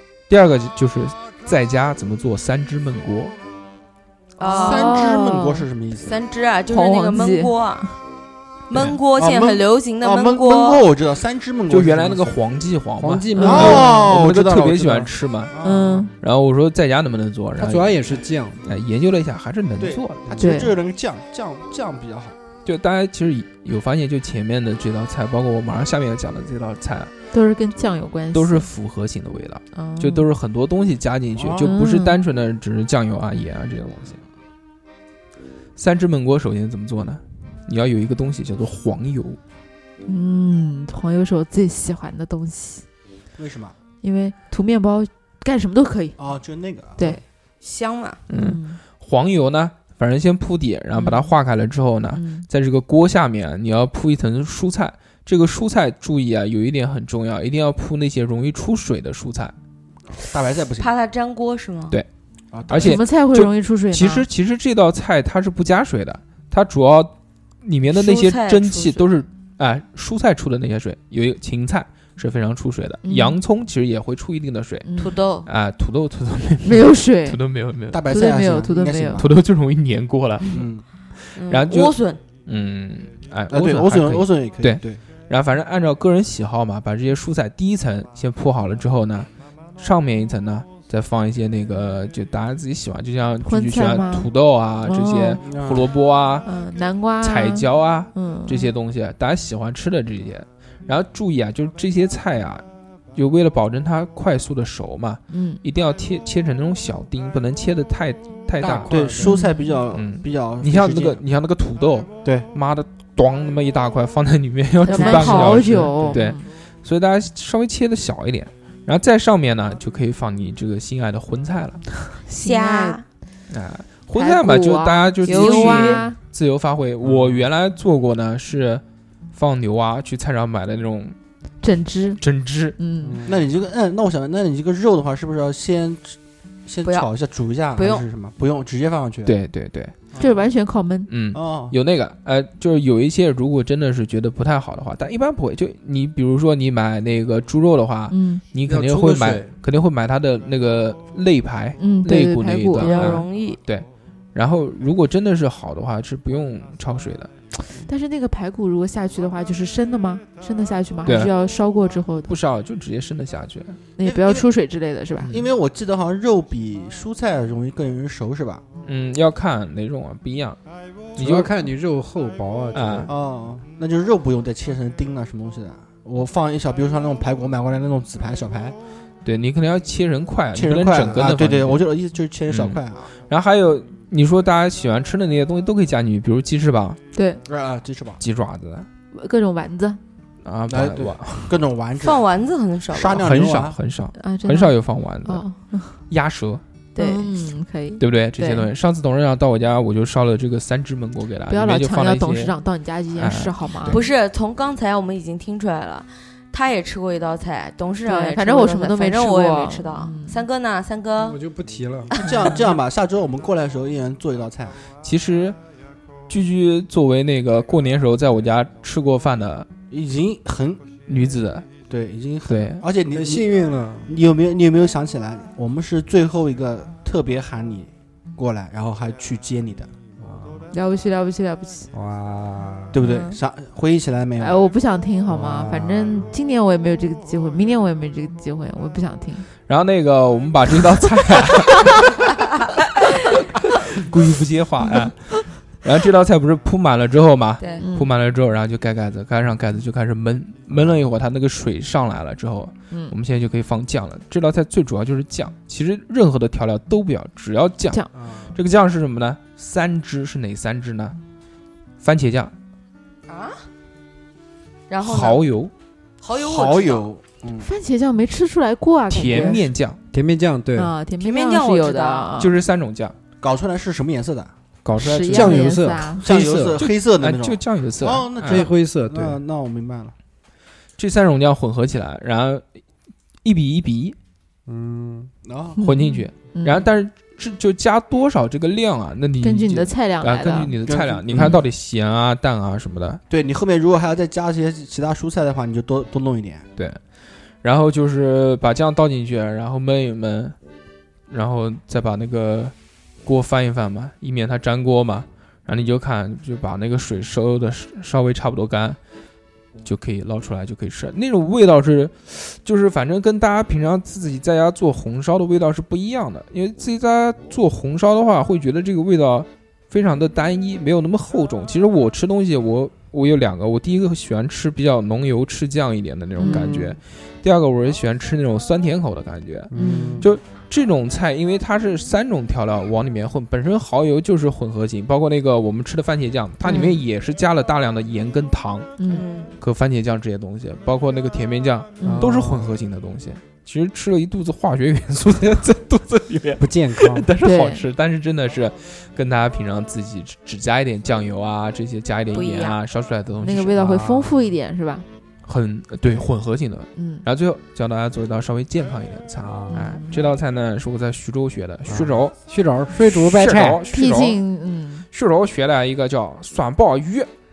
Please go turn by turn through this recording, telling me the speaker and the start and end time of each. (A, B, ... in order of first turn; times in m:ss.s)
0:00.3-0:03.4 A
0:04.4-0:05.0 B
0:04.4-0:05.6 C
0:04.6-0:06.2 D
0:06.0-0:07.9 B
0:06.7-0:07.9 C
0:08.7-0:10.9 B
0:09.1-0:12.3 D
0:11.7-0:15.5 A
0:13.0-0:13.9 E
0:13.4-0:14.1 C
0:13.4-0:16.1 D
0:15.6-0:16.1 C
0:16.2-0:18.1 A
0:17.6-0:18.7 E
0:18.6-0:20.5 A
0:19.8-0:22.4 D
0:20.4-0:20.7 C
0:22.6-0:27.1 A
0:27.3-0:28.7 C
0:28.3-0:34.2 A
0:29.7-0:30.3 C
0:31.4-0:31.7 D
0:31.6-0:32.2 C
0:35.8-0:39.4 A
0:40.0-0:42.8 C
0:43.4-0:43.8 D
0:44.0-0:46.2 C
0:46.2-0:47.1 D
0:47.0-0:48.2 B
0:48.3-0:59.5 A
0:48.3-0:48.8 C
0:51.0-0:51.4 C
0:52.1-0:52.5 C
1:00.1-1:00.9 D
1:00.8-1:02.0 B
1:02.5-1:03.0 D
1:02.7-1:14.9 A
1:02.8-1:04.3 C
1:07.9-1:09.1 B
1:13.0-1:13.4 C
1:14.8-1:15.2 C
1:15.0-1:15.5 B
1:15.5-1:18.1 A
1:16.6-1:17.4 C
1:17.9-1:19.3 D
1:18.1-1:19.2 C
1:19.2-1:20.7 A
1:20.5-1:20.8 D
1:21.2-1:36.5 A
1:21.4-1:22.2 B
1:23.5-1:25.0 D
1:33.4-1:34.3 C
1:34.8-1:35.4 C
1:35.4-1:35.9 D
1:36.4-1:38.7 C
1:37.2-1:42.6 A
1:43.2-1:49.1 A
1:45.3-1:45.6 C
1:48.6-1:49.3 E
1:48.9-1:51.2 D
1:49.2-1:49.8 C
1:49.9-2:02.0 A
1:54.8-1:56.4 C
1:54.9-1:55.7 B
1:55.8-1:56.2 E
2:02.3-2:03.0 C
2:02.3-2:03.0 B
2:03.5-2:08.8 A
2:04.2-2:06.2 C
2:05.2-2:06.1 B
2:07.0-2:07.5 E
2:09.3-2:11.2 A
2:11.6-2:12.2 C
2:12.2-2:12.8 A
2:12.8-2:13.2 C
2:13.0-2:13.5 E
2:13.3-2:19.4 D
2:16.8-2:17.1 B
2:17.8-2:18.1 B
2:19.2-2:20.0 A
2:20.2-2:21.1 C
2:21.1-2:37.3 A
2:21.3-2:21.8 D
2:28.1-2:28.4 C
2:28.7-2:29.5 E
2:31.8-2:33.2 C
2:32.8-2:33.6 B
2:37.8-2:42.3 C
2:41.0-2:41.3 A
2:42.3-2:43.8 A
2:44.0-2:45.3 C
2:44.0-2:44.5 D
2:45.3-2:48.6 D
2:48.8-2:50.6 A
2:51.2-2:51.5 A
2:51.2-2:53.1 E
2:52.7-2:53.1 A
2:53.1-2:58.8 D
2:59.2-3:01.8 A
3:00.5-3:03.1 D
3:02.5-3:07.0 A
3:07.1-3:07.4 C
3:07.5-3:08.2 D
3:08.2-3:08.9 A
3:09.1-3:10.0 C
3:10.4-3:11.6 A
3:10.7-3:12.3 D
3:12.0-3:13.2 B
3:12.9-3:13.8 D
3:13.2-3:15.4 A
3:14.2-3:16.0 C
3:16.1-3:16.6 A
3:17.0-3:17.3 B
3:17.0-3:18.7 C
3:18.0-3:22.5 A
3:21.5-3:24.0 C
3:23.2-3:24.0 A
3:23.8-3:31.4 B
3:28.0-3:30.4 C
3:31.2-3:32.1 E
3:32.1-3:32.4 B
3:32.2-3:34.8 D
3:35.0-3:35.6 A
3:36.3-3:39.7 A
3:39.9-3:40.8 D
3:41.1-3:41.7 A
3:41.9-3:43.6 D
3:42.5-3:42.8 A
3:43.1-3:44.1 E
3:44.1-3:49.9 D
3:50.2-3:50.7 E
3:50.7-3:51.9 C
3:51.9-3:53.0 E
3:52.9-3:54.6 D
3:53.0-3:53.4 C
3:54.4-3:59.5 C
3:55.3-3:56.3 E
3:59.7-4:02.2 A
4:04.0-4:21.2 A
4:07.6-4:07.9 B
4:07.8-4:08.1 C
4:18.2-4:18.5 D
4:22.0-4:22.5 A
4:23.3-4:23.7 B
4:24.9-4:25.4 B
4:25.0-4:25.7 A
4:26.2-4:27.1 B
4:26.3-4:27.7 D
4:27.6-4:29.6 C
4:29.1-4:30.0 A
4:30.1-4:30.9 E
4:30.8-4:32.5 C
4:31.2-4:32.3 B
4:32.4-4:33.2 A
4:33.4-4:34.5 D
4:34.8-4:36.8 E
4:35.0-4:36.2 C
4:35.0-4:35.6 D
4:36.2-4:40.2 D
4:36.8-4:38.7 A
4:38.5-4:39.4 E
4:41.0-4:42.6 A
4:43.4-4:44.2 A
4:44.7-4:45.3 E
4:45.4-4:45.8 D
4:45.8-4:46.8 C
4:45.8-4:53.2 A
4:49.4-4:50.7 C
4:50.9-4:51.6 D
4:53.3-4:56.7 D
4:57.6-5:00.6 A
5:01.3-5:09.0 A
5:09.8-5:39.0 A
5:26.4-5:26.8 C
5:26.4-5:27.0 E
5:29.7-5:30.3 E
5:29.7-5:30.3 C
5:36.6-5:37.0 C
5:39.0-5:39.2 C
5:39.1-5:39.5 B
5:39.6-5:53.8 A
5:42.0-5:42.3 C
5:42.0-5:42.8 E
5:46.6-5:47.3 E
5:47.4-5:47.8 C
5:52.3-5:52.8 B
5:53.4-5:55.1 C
5:53.8-5:54.6 E
5:55.4-6:02.3 A
5:57.0-5:57.2 C
5:59.4-5:59.9 E
5:59.7-6:00.2 C
6:01.9-6:03.9 E
6:02.9-6:04.4 A
6:03.9-6:05.0 C
6:05.1-6:07.3 A